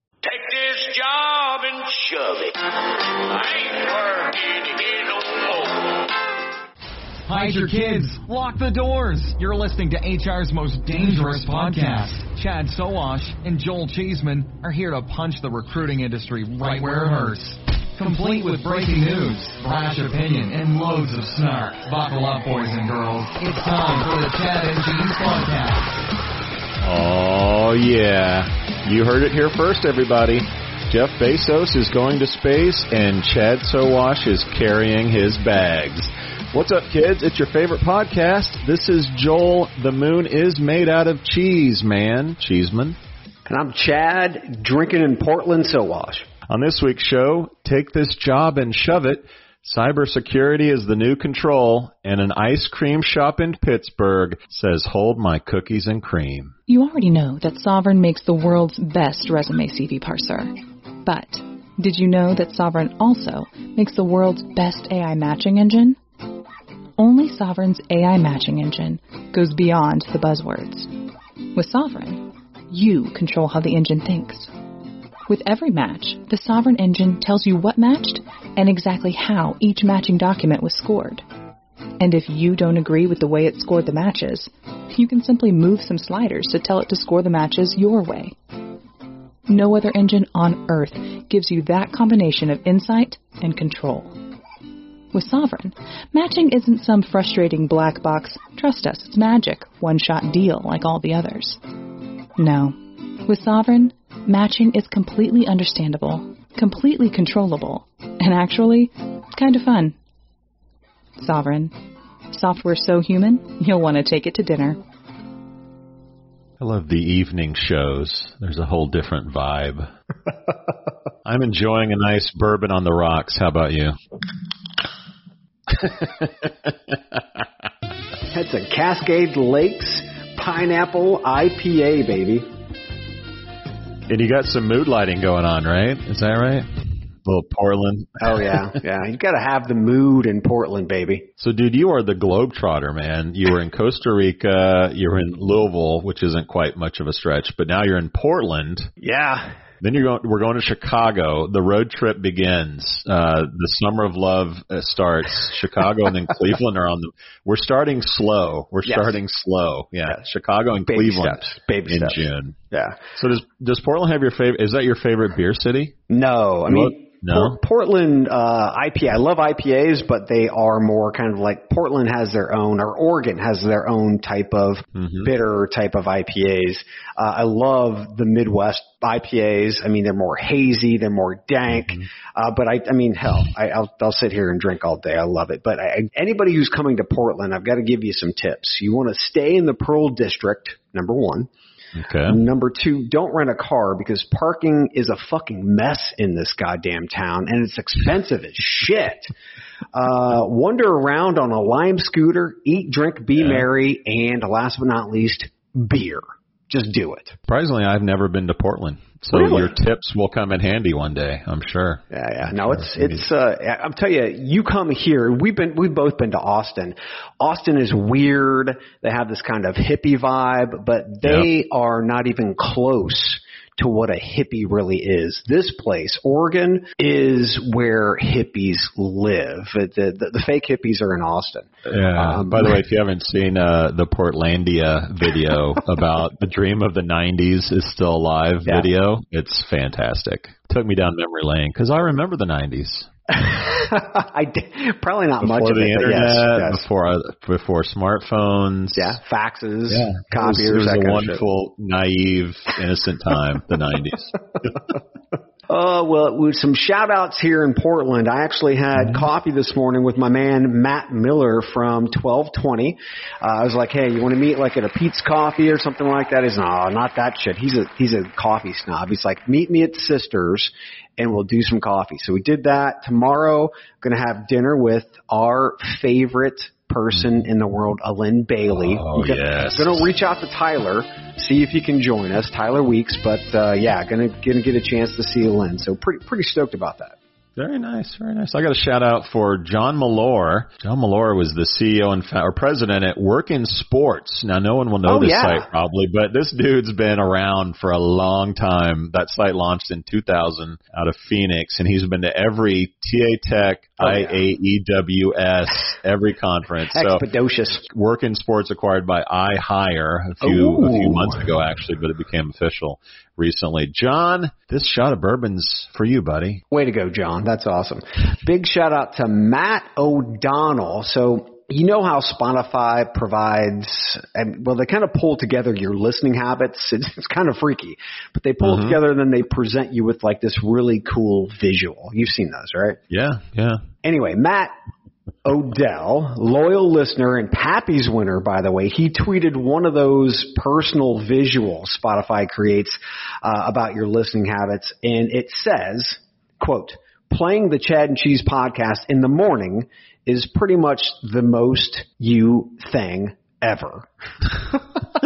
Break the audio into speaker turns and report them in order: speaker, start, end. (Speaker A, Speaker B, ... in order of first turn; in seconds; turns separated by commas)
Speaker A: 0.2-6.1, Speaker B: 7.3-26.0, Speaker C: 26.8-43.0, Speaker D: 43.5-46.3, Speaker C: 46.5-56.5, Speaker E: 56.7-60.5, Speaker E: 61.0-66.0, Speaker E: 67.0-70.9, Speaker E: 71.5-74.5, Speaker E: 75.3-81.2, Speaker E: 82.0-88.4, Speaker E: 89.5-94.1, Speaker E: 95.1-101.6, Speaker E: 102.4-110.0, Speaker E: 111.2-111.7, Speaker E: 112.3-114.8, Speaker C: 116.6-119.9, Speaker C: 121.2-124.0, Speaker C: 125.7-127.4, Speaker D: 128.3-132.5, Speaker C: 134.1-136.7, Speaker C: 137.2-138.7, Speaker D: 138.2-141.3, Speaker C: 141.4-148.9, Speaker D: 149.0-149.6, Speaker C: 149.8-162.6, Speaker D: 158.9-159.2, Speaker D: 160.9-162.2, Speaker D: 162.7-163.0, Speaker C: 163.2-166.0, Speaker D: 166.1-191.5, Speaker C: 166.7-167.6, Speaker C: 175.0-175.3, Speaker C: 191.9-192.4, Speaker D: 192.3-199.3, Speaker D: 199.9-207.4, Speaker C: 203.4-203.7, Speaker C: 207.5-213.3, Speaker D: 209.3-209.7, Speaker D: 212.1-232.8, Speaker C: 231.9-243.1, Speaker D: 243.3-246.8, Speaker C: 245.4-249.2, Speaker D: 249.0-251.4, Speaker C: 249.9-254.8, Speaker D: 255.7-287.2, Speaker C: 259.0-259.3, Speaker C: 278.7-280.1, Speaker C: 287.6-307.3, Speaker D: 295.1-295.7, Speaker D: 304.0-304.4, Speaker D: 306.9-307.8, Speaker C: 307.9-316.6, Speaker D: 310.4-311.4, Speaker D: 316.7-333.0, Speaker C: 328.6-329.0, Speaker C: 333.1-333.8, Speaker D: 334.0-334.7, Speaker D: 335.4-354.8